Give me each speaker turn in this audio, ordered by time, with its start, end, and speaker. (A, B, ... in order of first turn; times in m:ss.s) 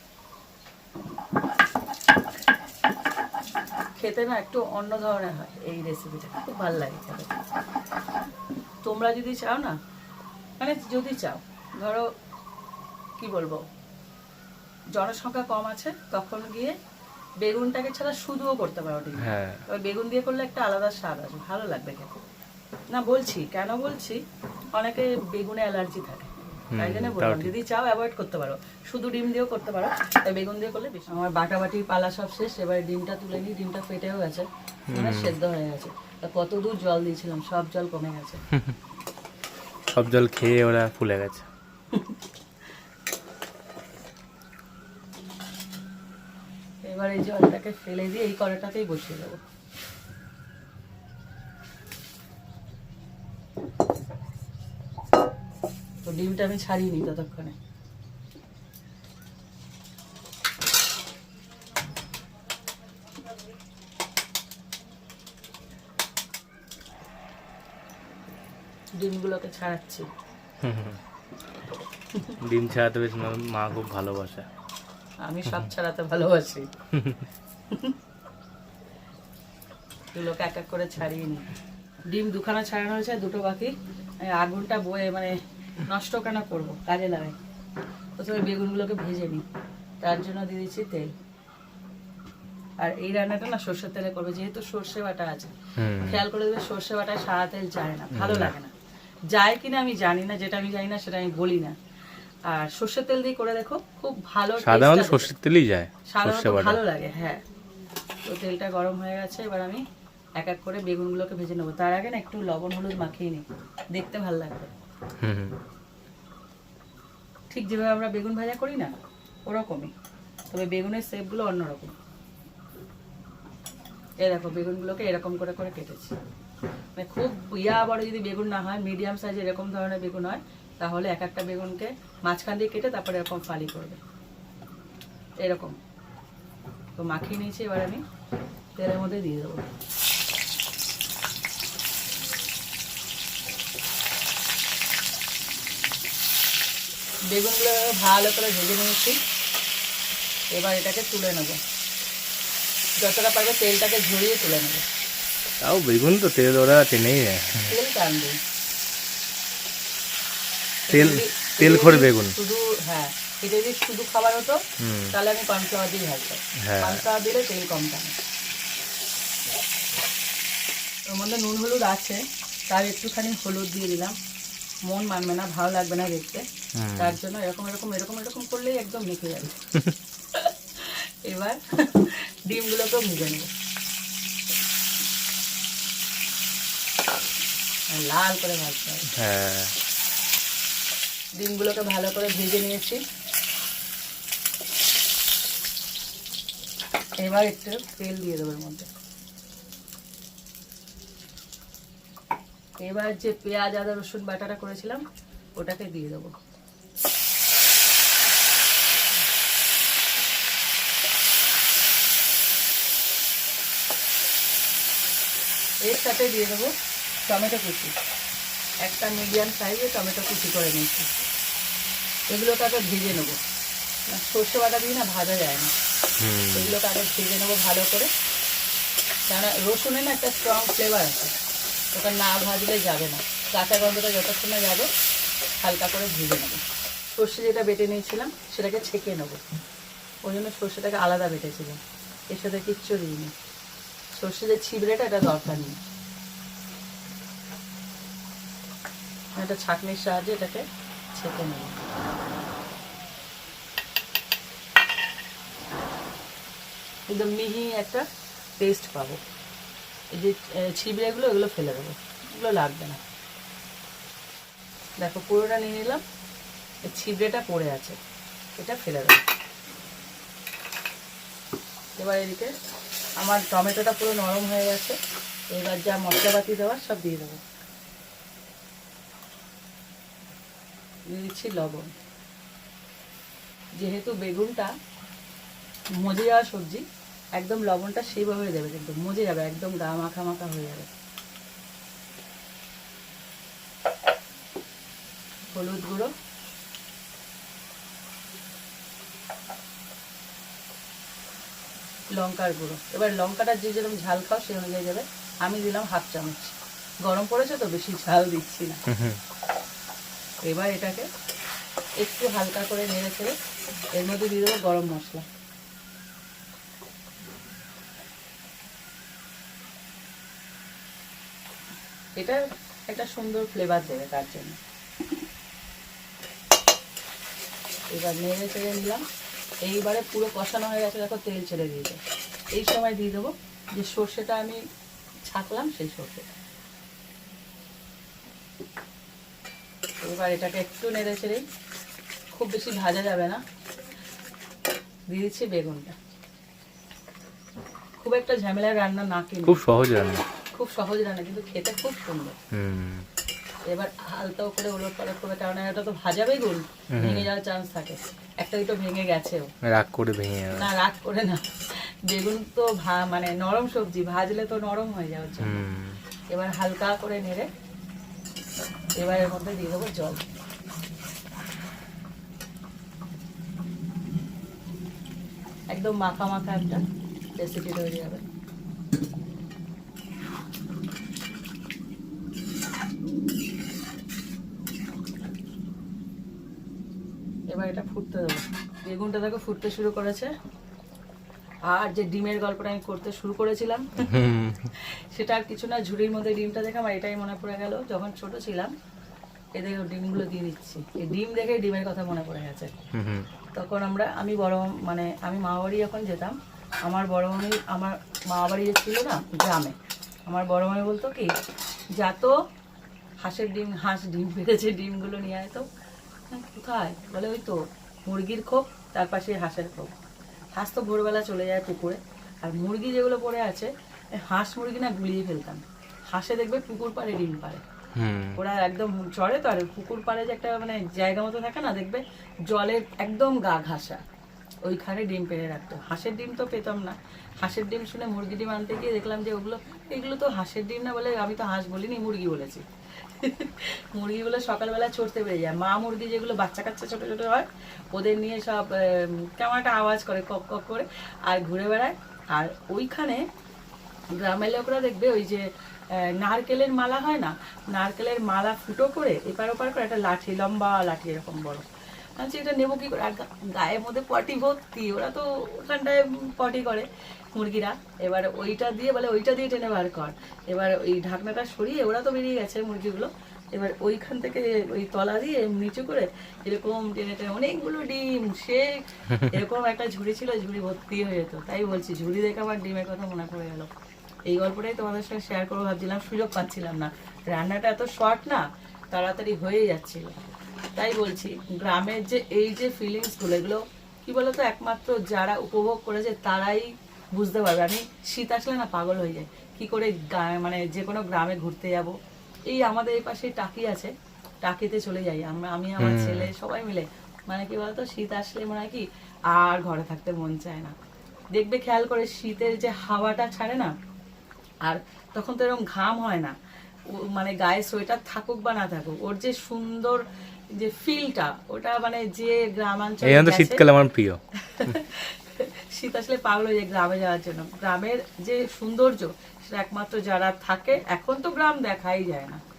0:04.0-0:07.3 A
0:08.8-0:09.8 A
0:10.6-0:12.1 A
0:13.2-0:13.6 A
0:14.9-0:16.8 A
0:17.4-0:22.1 A
0:19.2-0:19.6 B
0:22.9-0:24.2 A
0:24.7-0:38.4 A
0:26.7-0:27.5 B
0:34.9-0:35.4 B
0:39.9-0:41.5 B
0:41.9-0:42.2 A
0:46.8-0:49.4 A
0:56.0-0:57.6 A
1:09.0-1:10.1 A
1:10.6-1:11.0 B
1:12.4-1:14.5 B
1:15.2-1:16.7 A
1:16.9-1:17.2 B
1:17.7-1:18.0 A
1:20.1-1:21.4 A
1:22.1-1:23.7 A
1:24.2-1:27.3 A
1:28.2-1:29.4 A
1:30.0-1:31.1 A
1:32.8-1:38.7 A
1:35.8-1:36.2 B
1:38.1-1:38.5 B
1:39.3-1:41.7 A
1:42.5-1:45.3 A
1:44.6-1:46.8 B
1:46.1-1:47.4 A
1:48.2-1:49.8 A
1:50.4-1:54.7 A
1:55.2-1:55.6 B
1:57.5-1:58.9 A
1:59.4-1:59.9 A
2:00.5-2:01.9 A
2:04.2-2:06.1 A
2:07.0-2:14.0 A
2:15.4-2:15.8 A
2:17.0-2:18.0 A
2:18.8-2:19.7 A
2:27.3-2:29.2 A
2:30.5-2:31.6 A
2:33.0-2:34.8 A
2:35.6-2:37.7 B
2:37.7-2:38.4 A
2:40.9-2:48.2 A
2:40.9-2:42.4 B
2:44.8-2:45.2 B
2:46.6-2:47.0 B
2:51.1-2:54.1 A
2:54.9-2:56.4 A
2:56.8-2:57.2 B
2:57.0-2:59.6 A
3:00.3-3:03.5 A
3:07.9-3:09.1 A
3:09.2-3:09.7 B
3:11.4-3:13.0 A
3:17.2-3:18.9 A
3:22.8-3:25.0 A
3:25.6-3:26.3 A
3:35.8-3:36.7 A
3:37.3-3:37.9 A
3:38.8-3:41.1 A
3:42.3-3:43.4 A
3:44.1-3:45.7 A
3:46.2-3:46.8 B
3:46.5-3:48.1 A
3:49.3-3:51.3 A
3:51.9-3:54.9 A
3:55.6-3:59.4 A
4:00.2-4:01.8 A
4:02.3-4:03.3 A
4:04.1-4:05.8 A
4:09.4-4:11.8 A
4:17.1-4:18.0 A
4:18.6-4:19.2 A
4:20.1-4:23.0 A
4:25.0-4:26.0 A
4:26.8-4:28.0 A
4:28.6-4:29.2 A
4:32.0-4:32.5 A
4:33.2-4:35.0 A
4:35.5-4:37.4 A
4:41.1-4:41.9 A
4:43.8-4:44.7 A
4:45.9-4:50.9 A
4:55.5-4:56.1 A
5:02.1-5:08.8 A
5:08.9-5:09.2 B
5:10.4-5:11.0 A
5:12.0-5:13.3 A
5:13.9-5:15.2 A
5:22.2-5:24.6 A
5:27.9-5:29.0 A
5:29.6-5:32.0 A
5:32.5-5:34.6 A
5:35.2-5:36.3 A
5:40.0-5:41.4 A
5:42.3-5:43.4 A
5:45.1-5:46.0 A
5:48.0-5:49.6 A
5:49.4-5:50.2 B
5:50.5-5:52.4 A
5:52.5-5:53.0 B
5:53.6-5:59.5 A
5:56.9-5:57.3 B
5:59.7-6:00.7 B
6:00.5-6:01.4 A
6:02.1-6:05.6 A
6:05.4-6:06.0 B
6:06.3-6:07.5 A
6:09.0-6:10.2 A
6:15.7-6:16.8 A
6:17.4-6:18.2 A
6:27.5-6:30.3 A
6:31.7-6:34.0 A
6:34.0-6:34.7 B
6:34.7-6:38.7 A
6:39.6-6:42.7 A
6:42.9-6:43.3 B
6:43.5-6:49.8 A
6:50.3-6:51.3 A
6:52.0-6:52.3 A
6:53.2-6:55.6 A
6:56.3-7:00.0 A
7:00.6-7:07.6 A
7:08.0-7:08.4 B
7:08.4-7:14.0 A
7:14.6-7:33.2 A
7:34.2-7:41.6 A
7:42.2-8:03.7 A
8:04.3-8:10.2 A
8:10.8-8:21.9 A
8:22.5-8:23.9 A
8:24.4-8:30.7 A
8:25.8-8:26.3 B
8:31.3-8:33.7 A
8:34.6-8:36.3 A
8:36.9-8:40.0 A
8:40.6-8:43.6 A
8:43.0-8:44.7 B
8:44.4-8:52.4 A